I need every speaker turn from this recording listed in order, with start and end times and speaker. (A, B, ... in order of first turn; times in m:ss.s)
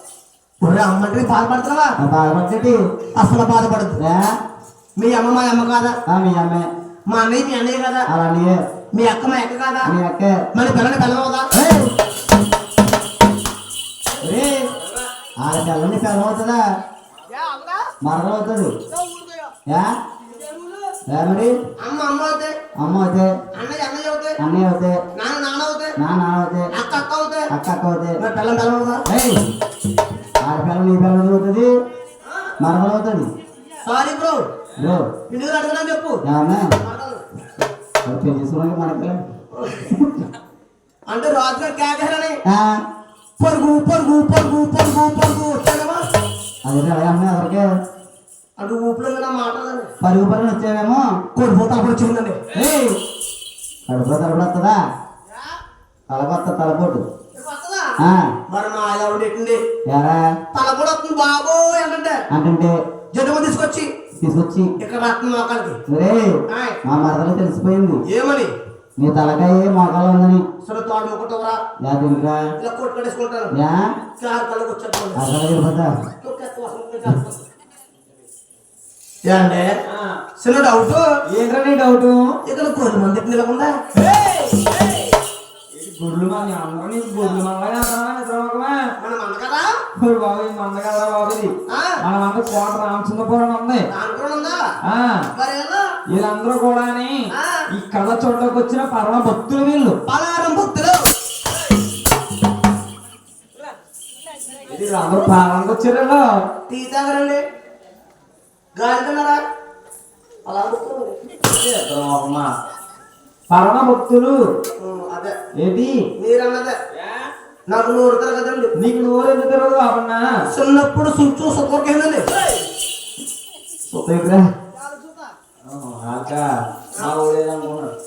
0:00.6-0:02.0 A
0:02.0-0:02.8 B
0:03.1-0:04.0 A
0:04.0-0:04.4 B
0:05.0-0:06.0 A
0:06.1-0:06.6 B
0:07.1-0:08.1 A
0:08.1-0:08.6 B
0:08.9-0:09.9 A
0:09.8-0:10.4 B
0:10.5-0:11.5 A
0:11.6-0:11.9 B
0:14.2-0:14.6 B
0:15.4-0:16.6 B
0:17.3-0:17.8 A
0:18.0-0:18.7 B
0:18.9-0:19.5 A
0:19.7-0:19.9 B
0:20.3-0:20.8 A
0:21.1-0:21.6 B
0:21.8-0:22.6 A
0:22.8-0:23.3 B
0:23.5-0:24.4 A
0:24.4-0:25.0 B
0:25.1-0:26.0 A
0:26.0-0:26.7 B
0:26.7-0:27.5 A
0:27.5-0:28.2 B
0:28.2-0:29.0 A
0:29.1-0:29.4 B
0:30.4-0:31.7 B
0:32.2-0:32.5 A
0:32.6-0:33.3 B
0:33.8-0:34.5 A
0:34.8-0:35.1 B
0:35.3-0:36.2 A
0:36.2-0:36.7 B
0:36.8-0:37.2 A
0:38.0-0:39.2 B
0:39.6-0:39.8 A
0:41.1-0:42.4 A
0:42.5-0:42.8 B
0:43.4-0:46.0 A
0:46.6-0:47.6 B
0:48.6-0:49.9 A
0:50.0-0:51.1 B
0:51.3-0:52.4 A
0:52.5-0:53.0 B
0:53.9-0:54.8 B
0:56.1-0:57.0 B
0:57.3-0:59.6 A
0:58.0-0:58.3 B
0:59.9-1:00.2 B
1:00.5-1:02.2 A
1:02.3-1:02.7 B
1:03.1-1:03.9 A
1:04.2-1:04.7 B
1:04.8-1:05.8 A
1:05.9-1:08.0 B
1:06.5-1:06.8 A
1:08.1-1:08.5 A
1:09.0-1:10.4 B
1:10.6-1:11.6 A
1:11.8-1:12.4 B
1:12.6-1:13.5 A
1:13.5-1:13.9 B
1:14.2-1:15.2 A
1:15.1-1:15.9 B
1:16.2-1:17.4 A
1:19.2-1:19.7 A
1:19.8-1:20.2 C
1:20.4-1:21.0 A
1:21.2-1:22.4 C
1:22.4-1:23.8 A
1:24.0-1:25.1 C
1:25.7-1:28.8 C
1:29.0-1:29.8 A
1:30.0-1:33.8 C
1:31.7-1:32.0 A
1:33.9-1:34.7 A
1:34.9-1:35.3 C
1:35.4-1:36.0 A
1:36.1-1:40.0 C
1:37.3-1:37.6 A
1:40.1-1:41.0 A
1:44.7-1:46.2 C
1:46.7-1:47.4 A
1:48.8-1:49.4 A
1:50.4-1:51.3 A
1:51.4-1:52.5 C
1:53.5-1:54.4 C
1:54.8-1:55.4 A
1:55.6-1:56.0 C
1:56.2-1:56.8 A
1:57.0-1:57.2 C
1:57.7-1:58.7 A
1:58.8-2:00.2 C
2:00.5-2:02.3 A
2:03.9-2:04.5 C
2:04.8-2:05.3 A
2:05.6-2:06.4 C
2:07.0-2:07.9 C